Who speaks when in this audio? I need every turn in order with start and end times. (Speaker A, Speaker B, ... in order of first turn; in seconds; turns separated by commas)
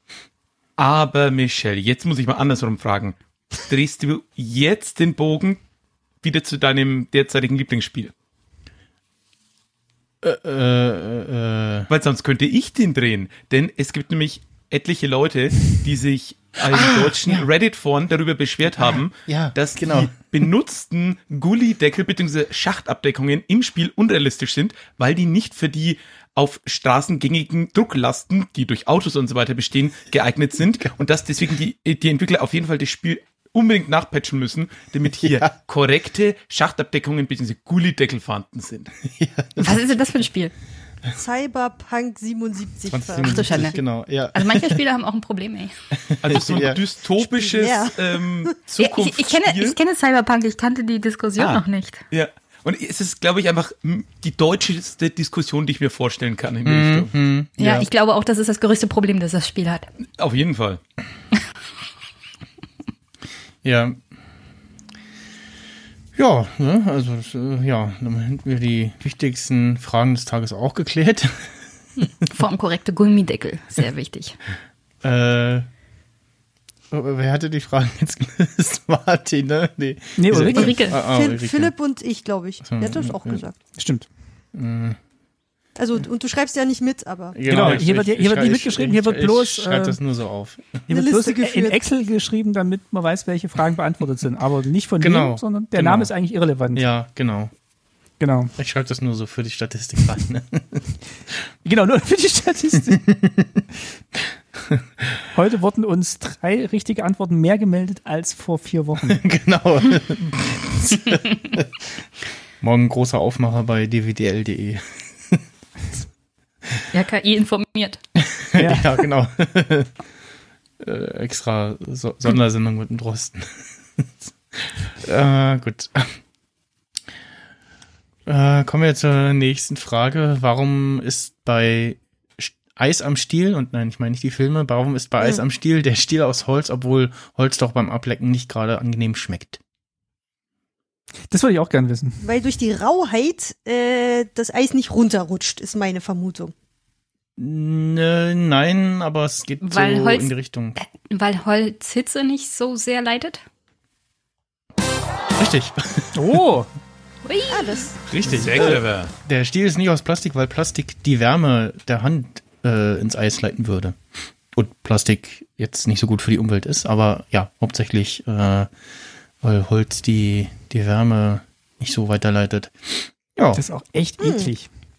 Speaker A: 0.8-5.6, Speaker A: 6.2-8.1, Speaker B: 10.2-11.9, Speaker A: 11.9-38.9, Speaker B: 16.6-17.5, Speaker B: 18.9-20.1, Speaker B: 35.2-35.5, Speaker B: 39.1-39.8, Speaker C: 39.6-40.5, Speaker D: 41.2-43.8, Speaker B: 42.9-44.8, Speaker C: 43.2-43.8, Speaker C: 44.3-45.7, Speaker B: 46.0-46.8, Speaker A: 46.2-49.8, Speaker D: 47.2-48.5, Speaker C: 48.8-52.0, Speaker A: 51.4-57.1, Speaker B: 56.6-57.9, Speaker C: 57.6-59.9, Speaker A: 60.2-60.8, Speaker B: 63.6-64.0, Speaker B: 66.2-71.5, Speaker C: 72.2-74.3, Speaker B: 75.0-75.7, Speaker B: 76.9-81.7, Speaker E: 80.2-80.8, Speaker C: 80.3-81.0, Speaker D: 80.9-83.6, Speaker B: 82.6-83.4, Speaker E: 83.8-84.1, Speaker B: 84.5-85.0, Speaker D: 85.8-87.7, Speaker B: 87.3-90.8, Speaker E: 87.5-90.0, Speaker D: 90.9-91.8, Speaker E: 90.9-96.8, Speaker B: 95.0-96.1, Speaker B: 96.7-97.5, Speaker E: 98.2-98.5, Speaker B: 98.6-100.8, Speaker E: 101.6-103.0, Speaker B: 102.9-103.6, Speaker E: 105.3-109.2, Speaker B: 109.0-111.7, Speaker B: 112.6-115.4, Speaker C: 116.9-118.0, Speaker B: 118.2-119.9, Speaker E: 118.5-118.9, Speaker B: 120.8-126.2, Speaker B: 128.2-139.6, Speaker E: 141.3-142.2, Speaker D: 142.2-146.5, Speaker B: 147.4-150.8, Speaker C: 149.6-153.4, Speaker B: 155.4-156.4, Speaker E: 156.1-156.7, Speaker C: 157.2-157.9, Speaker D: 157.5-157.9, Speaker B: 158.1-164.0, Speaker A: 158.2-159.1, Speaker E: 158.3-158.7, Speaker B: 164.5-168.7, Speaker B: 169.4-173.6, Speaker E: 173.5-174.7, Speaker D: 174.2-174.5